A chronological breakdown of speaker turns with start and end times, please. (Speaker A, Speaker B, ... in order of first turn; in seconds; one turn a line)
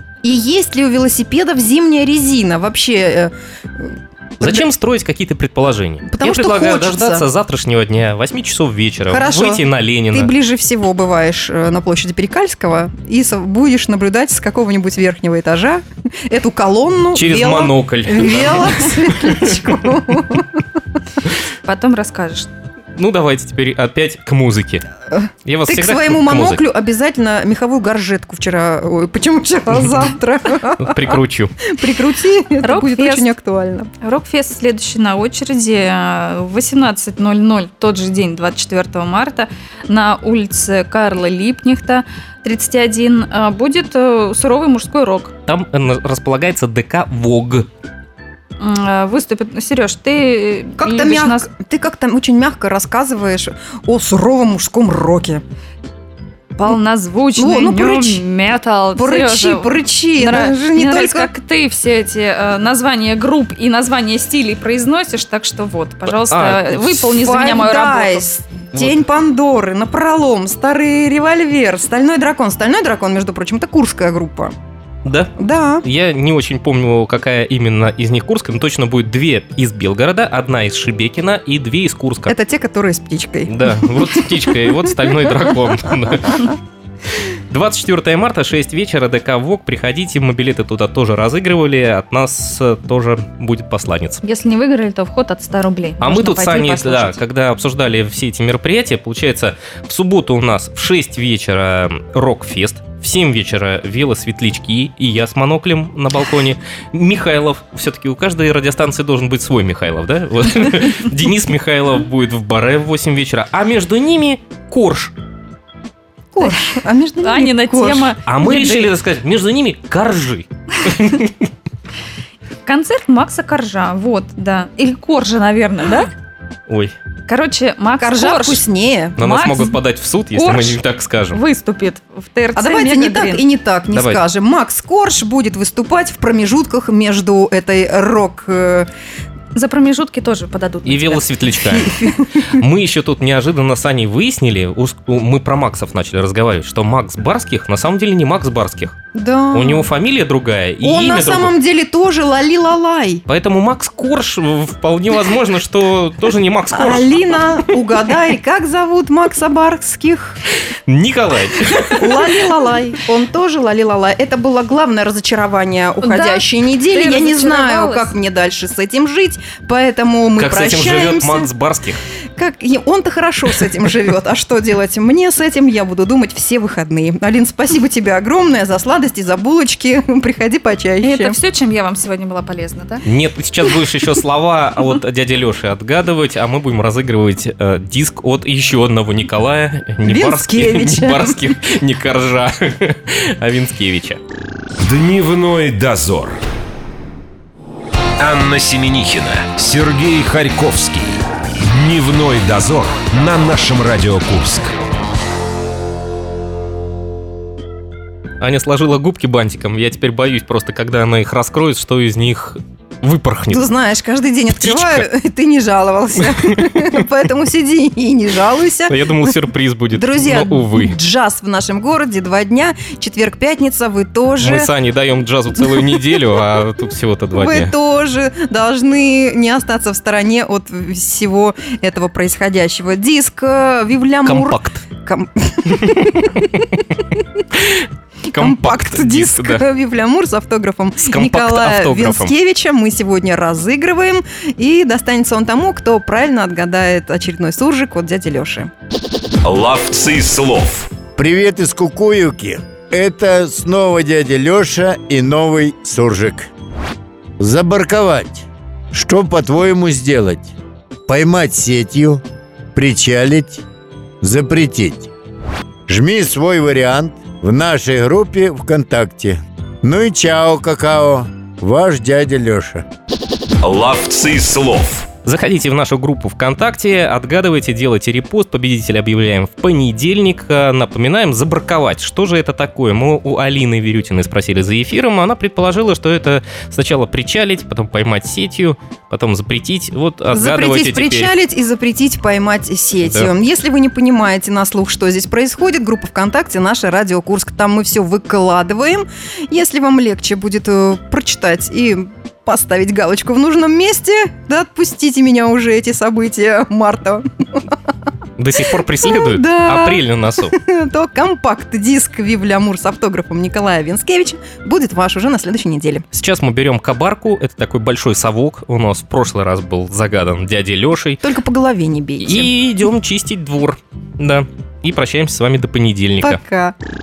Speaker A: 0.2-4.7
Speaker B: 4.4-10.3
Speaker A: 6.1-7.3
Speaker A: 9.1-20.6
Speaker B: 17.1-19.6
Speaker C: 21.6-22.5
Speaker B: 23.0-24.9
Speaker A: 25.1-33.9
Speaker B: 25.5-26.6
Speaker B: 30.8-31.5
Speaker C: 32.6-33.3
Speaker C: 34.0-45.3
Speaker B: 45.5-47.7
Speaker C: 48.6-51.5
Speaker A: 50.8-55.4
Speaker C: 56.6-68.3
Speaker A: 57.4-58.2
Speaker A: 59.0-61.3
Speaker B: 66.3-67.0
Speaker A: 67.1-74.5
Speaker B: 75.0-82.3
Speaker A: 75.4-75.8
Speaker A: 82.3-84.8
Speaker B: 83.5-86.6
Speaker B: 87.2-94.2
Speaker C: 94.2-97.2
Speaker B: 96.0-115.1
Speaker A: 116.3-118.1
Speaker C: 116.4-118.9
Speaker B: 118.3-121.3
Speaker C: 122.7-126.1
Speaker B: 126.7-127.0
Speaker C: 127.3-128.6
Speaker A: 128.0-129.2
Speaker C: 129.2-129.7
Speaker B: 129.2-131.4
Speaker C: 130.3-130.8
Speaker C: 131.3-133.4
Speaker A: 132.6-138.9
Speaker B: 133.9-134.2
Speaker C: 139.6-141.2
Speaker B: 140.8-149.0
Speaker A: 141.6-142.6
Speaker A: 149.1-149.9
Speaker B: 149.5-151.5
Speaker A: 150.8-153.2
Speaker B: 153.3-157.8
Speaker A: 156.7-160.4
Speaker B: 160.9-162.3
Speaker A: 161.9-171.5
Speaker C: 166.0-168.1
Speaker B: 170.4-172.0
Speaker A: 172.4-181.4
Speaker C: 181.0-183.0
Speaker B: 183.1-194.2
Speaker A: 190.1-191.4
Speaker D: 194.8-196.4
Speaker D: 198.2-204.7
Speaker B: 208.4-213.7
Speaker A: 213.5-219.3
Speaker B: 214.6-215.1
Speaker B: 216.3-216.9
Speaker B: 218.9-221.0
Speaker A: 220.0-224.7
Speaker B: 224.4-227.7
Speaker A: 227.3-236.7
Speaker B: 234.2-234.8
Speaker B: 237.6-239.7
Speaker A: 238.3-248.7
Speaker B: 241.0-242.3
Speaker D: 249.4-250.9
Speaker E: 251.2-256.5
Speaker E: 257.4-260.5
Speaker E: 261.1-262.2
Speaker E: 262.8-263.6
Speaker E: 264.2-265.1
Speaker E: 265.9-272.9
Speaker D: 273.6-275.1
Speaker B: 275.2-291.3
Speaker A: 290.3-307.8
Speaker B: 308.4-310.6
Speaker A: 309.0-316.1
Speaker B: 316.1-321.2
Speaker A: 321.2-322.5
Speaker B: 322.2-326.4
Speaker A: 326.2-326.8